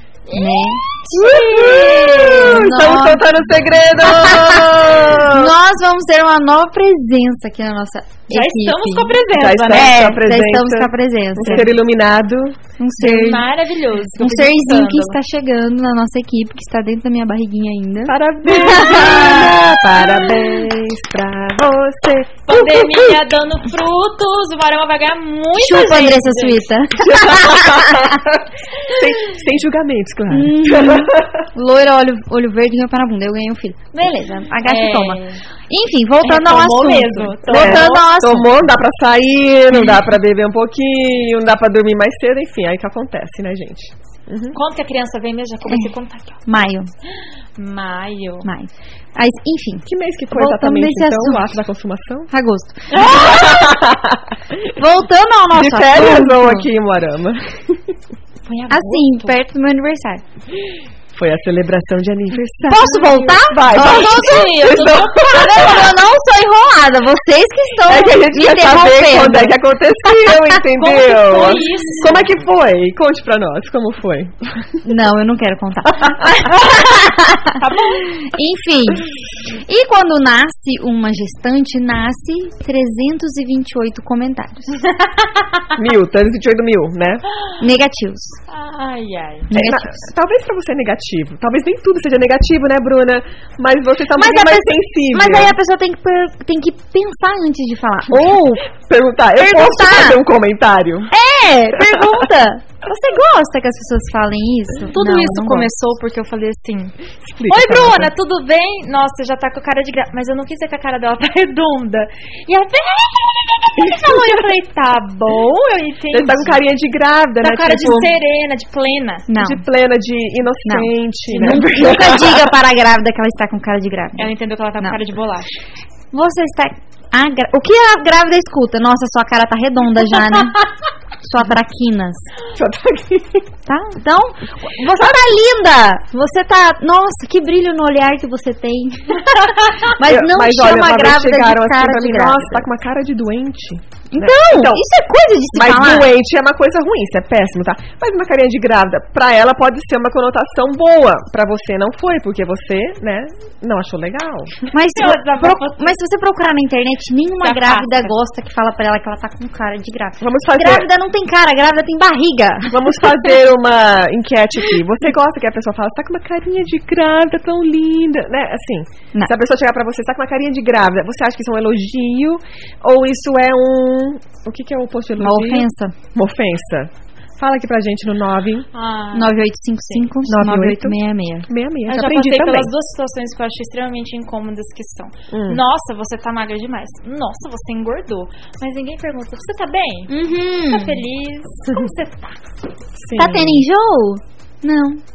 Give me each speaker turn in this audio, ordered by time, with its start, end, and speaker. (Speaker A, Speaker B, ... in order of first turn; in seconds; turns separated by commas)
Speaker A: 0.3-2.4, Speaker B: 0.3-3.3, Speaker C: 1.1-5.5, Speaker B: 4.0-11.8, Speaker A: 8.3-10.0, Speaker C: 9.3-12.6, Speaker B: 12.8-13.5, Speaker A: 13.0-15.2, Speaker B: 14.2-20.3, Speaker C: 18.1-23.2, Speaker A: 22.4-26.7, Speaker B: 25.6-28.2, Speaker C: 27.0-31.4, Speaker B: 30.3-38.6, Speaker A: 34.6-35.4, Speaker A: 36.2-38.0, Speaker C: 37.5-44.5, Speaker B: 39.8-40.0, Speaker A: 44.5-46.4, Speaker B: 46.5-46.9, Speaker A: 47.5-48.5, Speaker B: 48.4-51.5, Speaker C: 49.9-52.3, Speaker B: 52.3-53.8, Speaker C: 52.9-54.7, Speaker A: 52.9-53.2, Speaker B: 54.8-56.7, Speaker C: 55.5-57.9, Speaker A: 58.5-59.3, Speaker B: 58.7-60.2, Speaker C: 61.1-65.8, Speaker B: 62.6-69.6, Speaker A: 63.0-65.9, Speaker C: 67.9-74.8, Speaker A: 70.8-72.2, Speaker B: 74.8-84.8, Speaker A: 77.6-78.1, Speaker A: 84.9-85.6, Speaker C: 85.8-87.2, Speaker B: 87.6-88.4, Speaker A: 88.5-89.5, Speaker B: 89.5-90.1, Speaker C: 89.5-95.5, Speaker B: 94.2-98.6, Speaker C: 98.1-101.1, Speaker B: 99.4-100.2, Speaker B: 101.1-105.7, Speaker A: 104.9-106.9, Speaker C: 107.2-108.1, Speaker A: 107.5-116.6, Speaker C: 116.1-118.1, Speaker A: 117.4-119.3, Speaker B: 119.3-119.6, Speaker C: 119.3-122.5, Speaker B: 120.6-125.0, Speaker A: 124.2-125.5, Speaker B: 126.1-130.7, Speaker B: 131.2-132.3, Speaker C: 132.5-133.5, Speaker B: 133.7-142.6, Speaker C: 140.0-144.8, Speaker B: 144.1-146.1, Speaker C: 145.5-154.6, Speaker B: 154.7-163.0, Speaker A: 154.9-155.9, Speaker A: 157.4-158.1, Speaker C: 160.2-160.9, Speaker C: 162.7-178.7, Speaker B: 175.2-175.9, Speaker A: 178.7-179.3, Speaker B: 179.1-181.5, Speaker C: 180.2-181.0, Speaker C: 181.5-182.7, Speaker A: 181.9-190.1, Speaker C: 185.3-185.6, Speaker B: 190.1-191.0, Speaker A: 190.7-192.4, Speaker C: 192.9-193.6, Speaker B: 193.2-195.0